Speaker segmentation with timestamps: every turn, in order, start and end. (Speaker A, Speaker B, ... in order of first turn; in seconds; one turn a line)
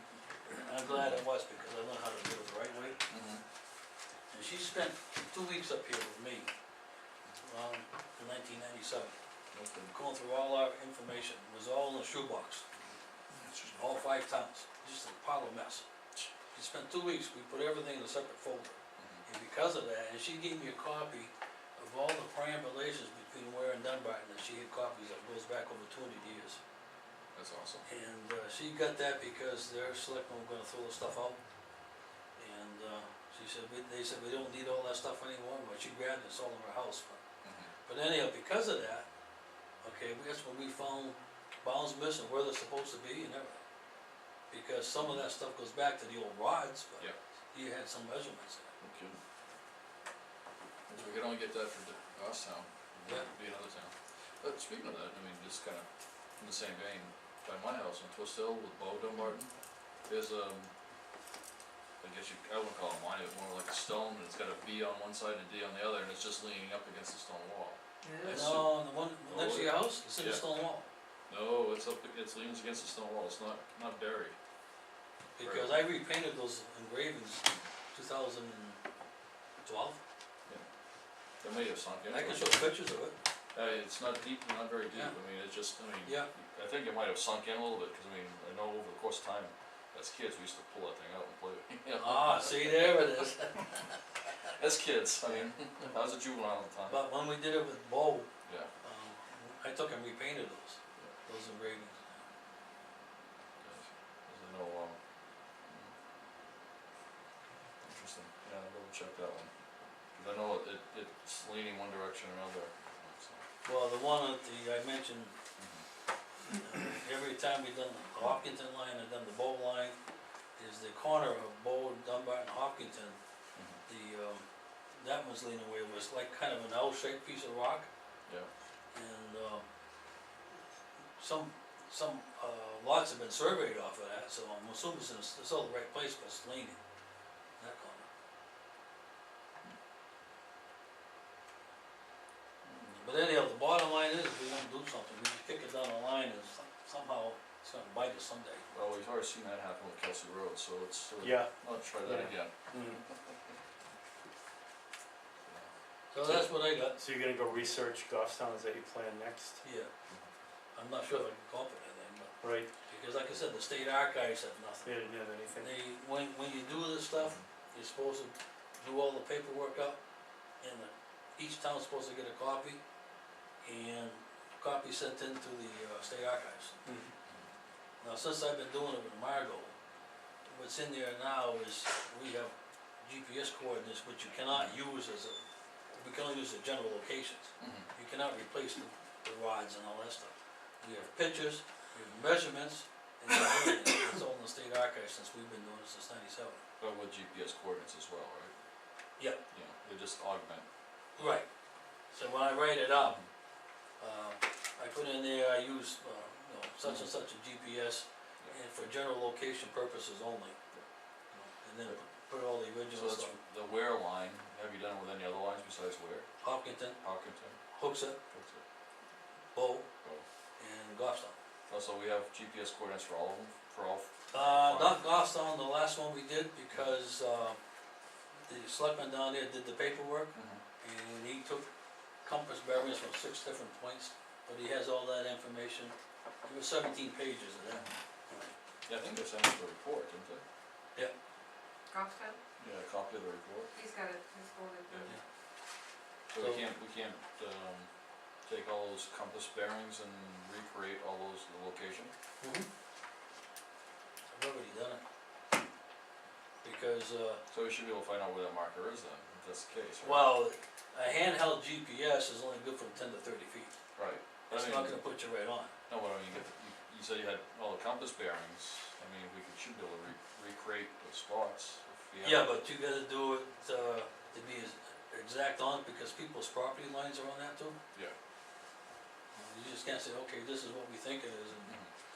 Speaker A: 0.5-3.0
Speaker B: 3.1-3.4
Speaker A: 4.3-6.5
Speaker A: 7.4-9.2
Speaker B: 9.5-9.9
Speaker A: 9.9-12.6
Speaker B: 13.4-13.8
Speaker A: 13.7-15.8
Speaker A: 16.5-26.6
Speaker B: 27.4-27.9
Speaker A: 27.9-31.4
Speaker A: 32.4-37.2
Speaker B: 37.4-37.7
Speaker A: 37.9-39.1
Speaker A: 39.8-43.6
Speaker A: 44.5-48.7
Speaker B: 45.0-45.2
Speaker B: 48.8-49.2
Speaker B: 50.9-55.9
Speaker B: 56.4-59.5
Speaker B: 60.1-60.7
Speaker B: 62.0-68.8
Speaker C: 68.0-68.4
Speaker A: 68.2-70.9
Speaker B: 69.3-70.4
Speaker B: 71.3-74.3
Speaker A: 75.4-78.8
Speaker B: 75.4-75.7
Speaker A: 79.7-80.0
Speaker B: 81.4-82.5
Speaker A: 82.1-83.2
Speaker B: 83.5-93.0
Speaker A: 92.0-94.0
Speaker B: 94.5-97.0
Speaker A: 96.9-98.3
Speaker A: 98.8-102.2
Speaker B: 103.6-105.0
Speaker B: 105.7-105.9
Speaker B: 107.8-109.5
Speaker B: 110.2-113.4
Speaker A: 113.7-115.3
Speaker B: 115.6-115.8
Speaker A: 116.6-120.0
Speaker A: 120.6-123.2
Speaker A: 123.9-124.5
Speaker A: 125.0-127.9
Speaker A: 128.9-129.6
Speaker A: 131.2-136.8
Speaker A: 137.6-138.1
Speaker A: 142.8-148.7
Speaker B: 148.7-152.5
Speaker D: 151.2-151.5
Speaker D: 152.0-153.0
Speaker A: 156.1-157.0
Speaker D: 156.9-159.6
Speaker A: 159.6-159.9
Speaker A: 160.8-164.9
Speaker D: 162.4-162.7
Speaker D: 164.8-165.7
Speaker A: 165.6-170.0
Speaker A: 170.6-172.8
Speaker A: 173.6-176.8
Speaker D: 176.8-177.1
Speaker A: 178.0-179.8
Speaker A: 180.5-196.6
Speaker B: 187.6-187.9
Speaker B: 196.8-198.5
Speaker B: 199.5-200.7
Speaker A: 201.2-201.4
Speaker A: 202.1-203.2
Speaker B: 203.0-203.3
Speaker A: 204.0-210.6
Speaker A: 211.3-213.3
Speaker B: 212.9-216.3
Speaker A: 216.4-217.0
Speaker B: 217.0-217.6
Speaker A: 217.7-218.2
Speaker B: 218.3-218.6
Speaker A: 219.5-219.9
Speaker A: 220.6-221.4
Speaker B: 221.7-225.0
Speaker A: 224.3-227.6
Speaker A: 228.5-231.7
Speaker B: 230.3-230.6
Speaker A: 232.2-235.9
Speaker A: 236.4-238.5
Speaker B: 238.9-240.4
Speaker C: 241.9-242.4
Speaker B: 242.6-243.7
Speaker C: 243.7-245.1
Speaker B: 246.3-247.9
Speaker A: 246.4-246.6
Speaker B: 248.5-252.1
Speaker A: 252.4-252.7
Speaker A: 254.3-255.0
Speaker A: 256.6-257.4
Speaker B: 257.5-260.3
Speaker A: 260.0-263.7
Speaker B: 264.0-265.0
Speaker A: 264.5-265.7
Speaker B: 265.9-272.5
Speaker A: 272.2-277.8
Speaker A: 279.4-281.8